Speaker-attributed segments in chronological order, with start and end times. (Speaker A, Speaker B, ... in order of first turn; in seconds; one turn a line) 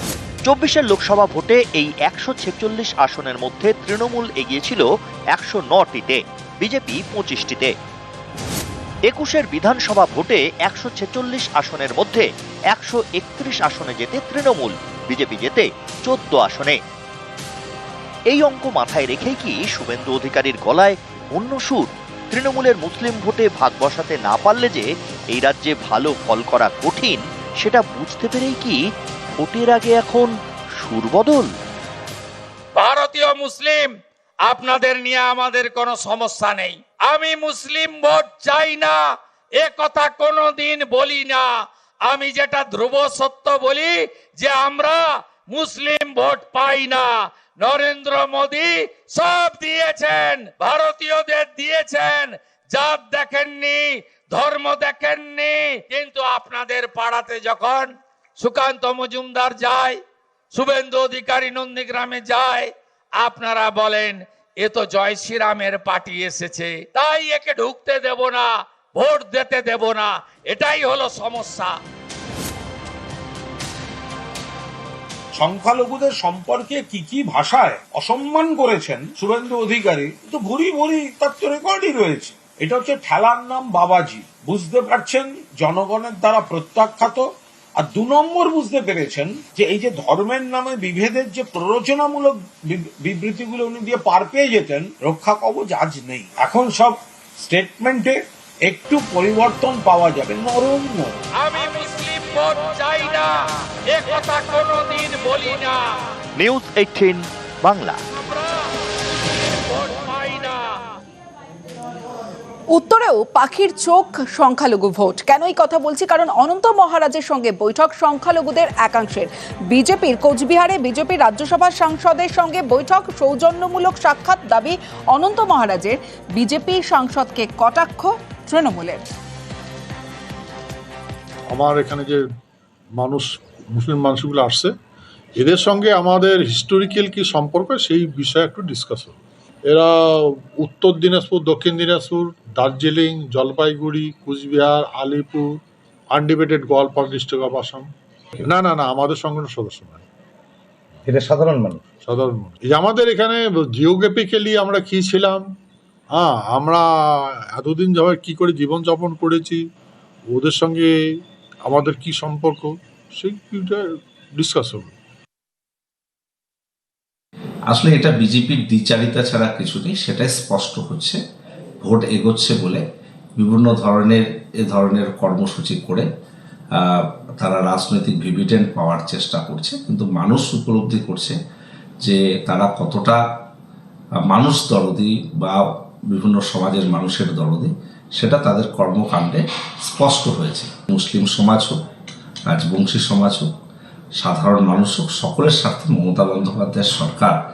Speaker A: 0.5-7.7
Speaker A: 9.1-16.8
Speaker A: 18.3-28.8
Speaker A: 29.3-31.5
Speaker B: 32.8-33.9
Speaker B: 34.5-39.0
Speaker B: 39.6-41.5
Speaker B: 42.0-47.1
Speaker B: 47.6-60.0
Speaker B: 60.5-71.8
Speaker C: 75.3-101.2
Speaker B: 101.4-105.9
Speaker A: 106.4-108.0
Speaker B: 108.2-108.7
Speaker B: 109.6-110.8
Speaker D: 112.7-129.0
Speaker E: 131.5-132.2
Speaker E: 133.0-134.7
Speaker E: 135.4-145.5
Speaker E: 146.1-147.9
Speaker E: 148.4-150.0
Speaker E: 152.0-155.4
Speaker E: 156.2-156.9
Speaker E: 157.6-159.6
Speaker E: 160.3-160.9
Speaker E: 161.7-163.8
Speaker E: 164.4-164.9
Speaker F: 167.7-171.2
Speaker F: 171.8-172.8
Speaker F: 173.4-176.1
Speaker F: 176.8-181.4
Speaker F: 182.0-183.2
Speaker F: 184.2-191.8
Speaker F: 192.5-193.5
Speaker F: 194.2-197.4